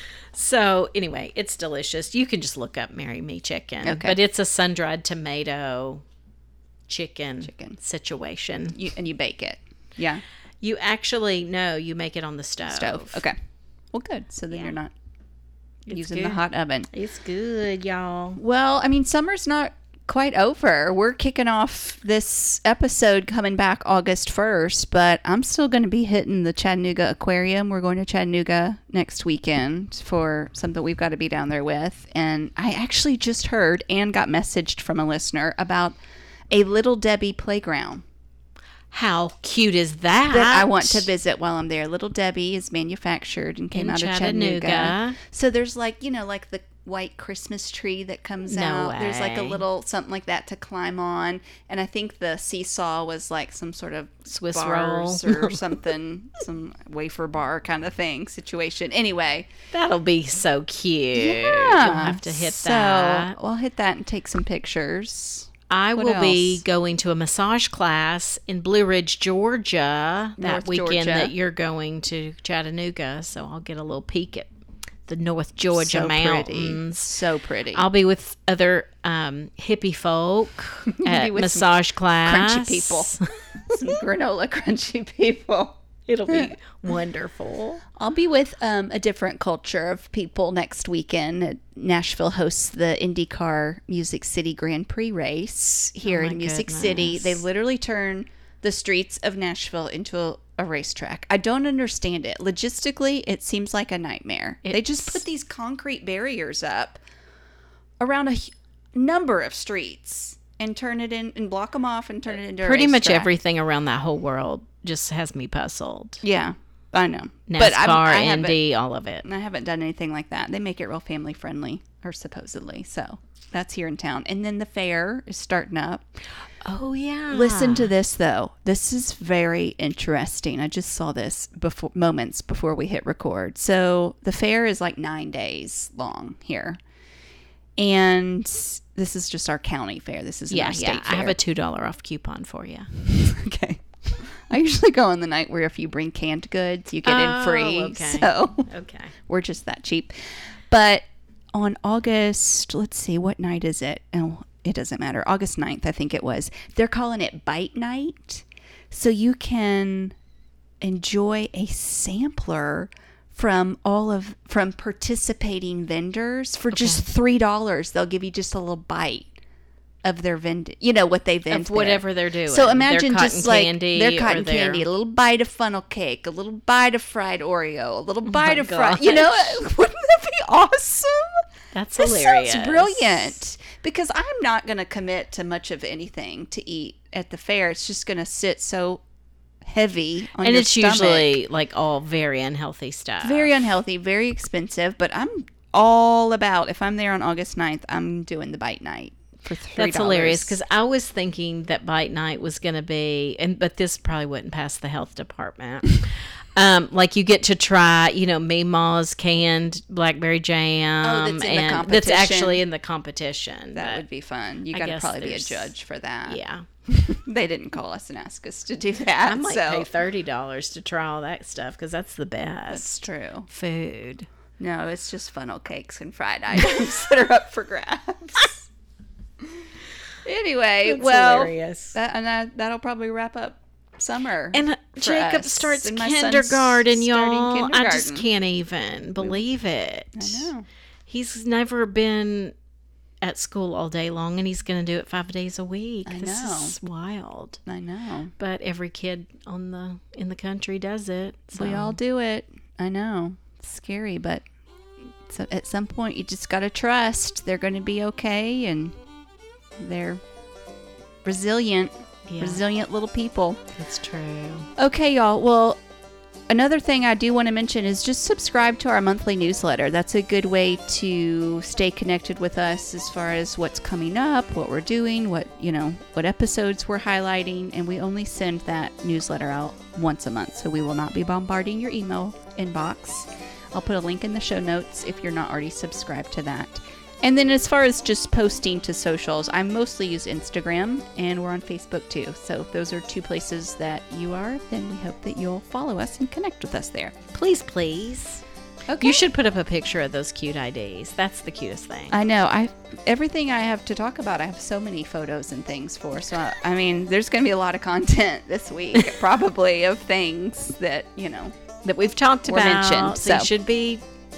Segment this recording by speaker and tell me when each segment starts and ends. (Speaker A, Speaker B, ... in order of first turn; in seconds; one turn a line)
Speaker A: 0.3-6.0
Speaker B: 3.8-4.2
Speaker A: 6.9-8.8
Speaker B: 7.4-7.8
Speaker B: 8.8-10.2
Speaker A: 10.6-13.2
Speaker B: 12.7-13.3
Speaker B: 13.9-14.9
Speaker A: 15.9-16.4
Speaker B: 15.9-16.9
Speaker A: 16.9-18.4
Speaker B: 18.4-36.0
Speaker B: 36.5-38.0
Speaker A: 38.9-41.1
Speaker B: 40.3-59.5
Speaker A: 43.7-45.2
Speaker A: 48.5-49.6
Speaker A: 54.3-55.7
Speaker A: 59.7-63.4
Speaker B: 61.2-66.6
Speaker A: 65.7-74.5
Speaker B: 70.4-71.3
Speaker A: 75.1-77.2
Speaker B: 75.7-77.8
Speaker A: 77.7-83.7
Speaker B: 81.0-83.1
Speaker B: 83.7-86.6
Speaker A: 86.1-87.8
Speaker B: 88.0-107.0
Speaker A: 96.0-97.4
Speaker A: 104.6-105.2
Speaker B: 108.0-113.3
Speaker A: 112.5-116.2
Speaker B: 116.2-118.6
Speaker A: 117.5-119.3
Speaker B: 119.2-126.0
Speaker A: 126.6-127.9
Speaker B: 127.3-136.8
Speaker B: 137.8-141.4
Speaker A: 140.5-142.9
Speaker B: 143.1-148.7
Speaker A: 147.1-149.1
Speaker B: 149.2-150.1
Speaker B: 150.7-160.2
Speaker B: 160.8-169.3
Speaker A: 166.7-167.1
Speaker B: 170.0-181.4
Speaker A: 171.5-174.9
Speaker A: 178.2-179.6
Speaker A: 181.7-183.4
Speaker B: 182.0-189.0
Speaker B: 189.6-191.4
Speaker A: 190.4-193.6
Speaker B: 193.2-200.6
Speaker A: 199.8-214.1
Speaker B: 211.0-212.6
Speaker B: 213.8-219.9
Speaker A: 214.7-215.7
Speaker A: 216.3-216.7
Speaker A: 219.3-224.3
Speaker B: 222.7-223.5
Speaker B: 224.6-228.7
Speaker B: 230.2-238.3
Speaker A: 230.8-232.0
Speaker A: 234.5-240.5
Speaker B: 240.2-240.7
Speaker A: 241.1-242.5
Speaker A: 243.2-247.6
Speaker B: 246.1-246.8
Speaker B: 247.7-248.3
Speaker A: 248.4-252.0
Speaker B: 251.5-254.4
Speaker B: 255.3-259.0
Speaker B: 259.8-260.2
Speaker B: 261.2-263.6
Speaker A: 262.3-262.6
Speaker A: 263.8-264.7
Speaker B: 264.8-265.8
Speaker B: 266.5-297.2
Speaker A: 297.3-298.4
Speaker B: 298.9-299.2
Speaker A: 299.0-302.2
Speaker B: 302.1-311.6
Speaker A: 311.8-314.0
Speaker B: 312.5-313.5